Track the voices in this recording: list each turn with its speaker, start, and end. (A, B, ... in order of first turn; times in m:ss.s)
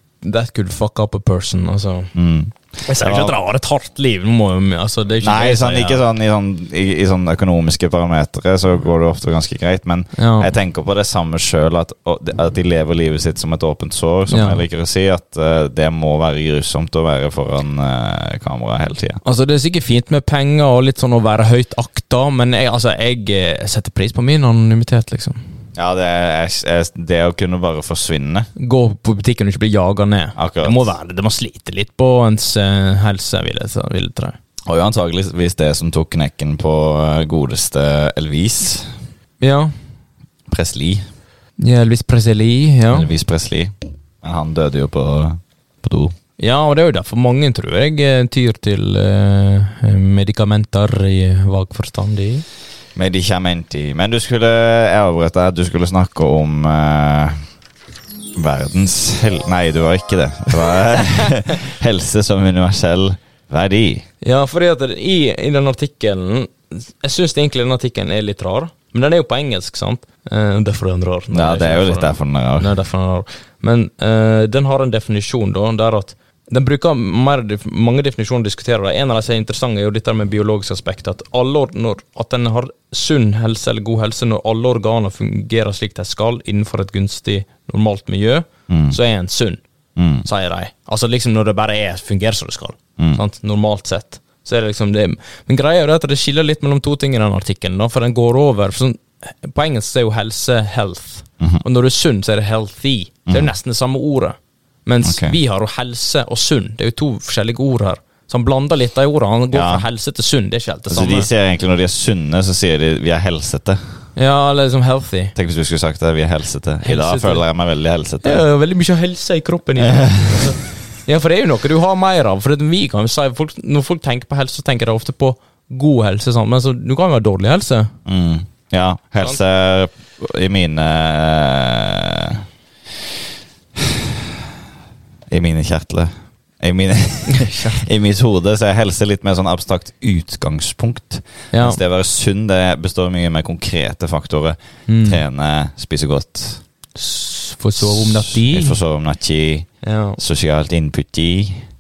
0:00.2-0:02.1 A
0:02.2-0:03.4 B
0:02.8-0:06.0 A
0:05.2-0:19.2 B
0:10.2-0:10.5 A
0:14.3-0:14.6 A
0:19.2-0:25.4 A
0:25.8-0:28.5 B
0:28.6-0:34.4 A
0:30.4-0:30.9 B
0:34.7-0:38.9 B
0:39.4-0:39.7 A
0:40.5-0:41.0 B
0:41.6-0:43.1 A
0:42.9-0:46.2 B
0:46.4-0:52.4 A
0:53.0-0:57.4 B
0:58.4-1:04.0 B
1:04.2-1:29.6 A
1:11.3-1:12.7 B
1:28.7-1:29.0 B
1:30.0-1:30.3 B
1:30.2-1:51.3 A
1:45.0-1:45.4 B
1:49.5-1:49.8 B
1:50.9-1:53.8 B
1:54.2-1:55.4 A
1:55.4-1:58.4 B
1:56.8-1:57.4 A
1:58.2-2:08.0 A
1:59.8-2:00.5 B
2:08.1-2:12.4 B
2:13.8-2:14.4 B
2:15.3-2:26.6 B
2:17.3-2:17.8 A
2:21.5-2:21.8 A
2:24.9-2:25.2 A
2:27.0-2:28.8 A
2:27.8-2:31.7 B
2:29.8-2:30.2 A